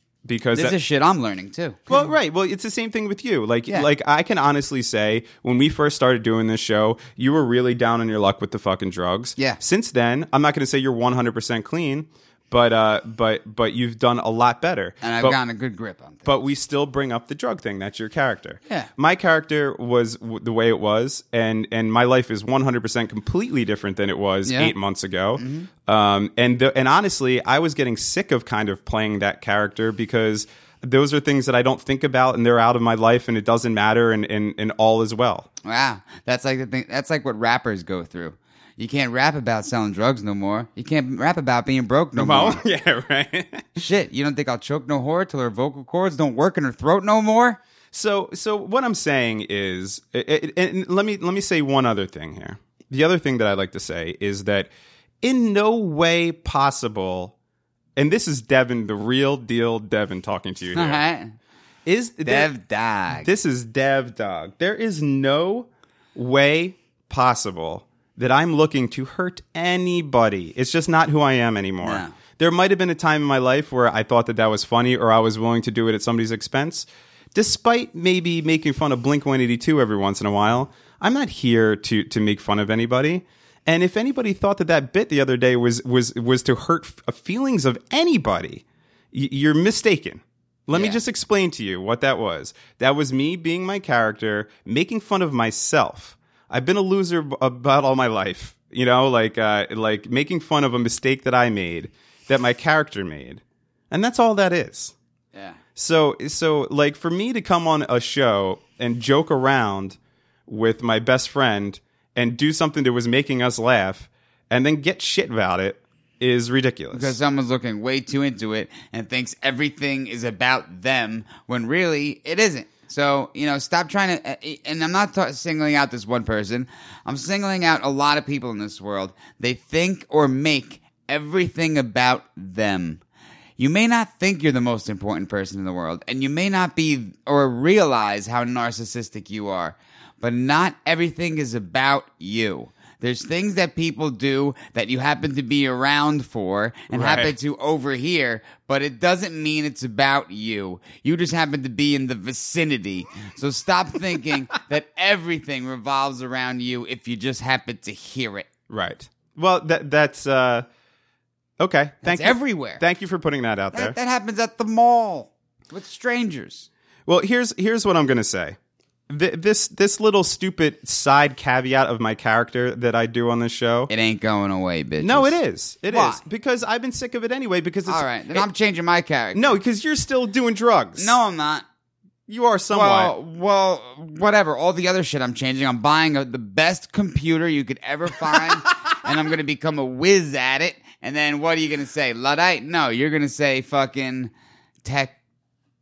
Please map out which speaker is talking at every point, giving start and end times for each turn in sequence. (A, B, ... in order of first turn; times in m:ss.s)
0:00.2-0:00.8 A
0:00.5-0:02.0 B
0:01.9-0:15.4 A
0:15.0-0:16.3 B
0:16.2-0:35.5 A
0:24.4-0:24.7 B
0:25.4-0:25.7 B
0:35.6-0:42.6 B
0:42.2-0:43.8 A
0:43.8-0:47.6 B
0:47.9-0:54.7 A
0:55.2-0:57.3 A
0:58.0-1:01.0 A
1:00.7-1:01.3 B
1:01.8-1:02.5 A
1:02.2-1:03.3 B
1:03.2-1:44.9 A
1:11.8-1:12.1 B
1:30.7-1:31.0 B
1:45.3-1:45.6 B
1:45.8-1:57.2 A
1:56.9-2:13.0 B
2:13.6-2:38.4 B
2:26.9-2:27.3 A
2:38.7-2:40.6 A
2:41.6-2:44.0 A
2:42.0-2:42.8 B
2:43.7-2:46.7 B
2:47.1-2:48.6 A
2:49.1-2:53.9 A
2:53.9-2:55.4 B
2:55.0-2:58.4 A
2:55.9-2:56.2 B
2:57.9-2:59.6 B
2:59.3-3:01.2 A
3:01.0-3:01.6 B
3:02.3-3:03.1 A
3:02.7-3:14.3 B
3:08.3-3:08.6 A
3:14.8-3:15.1 B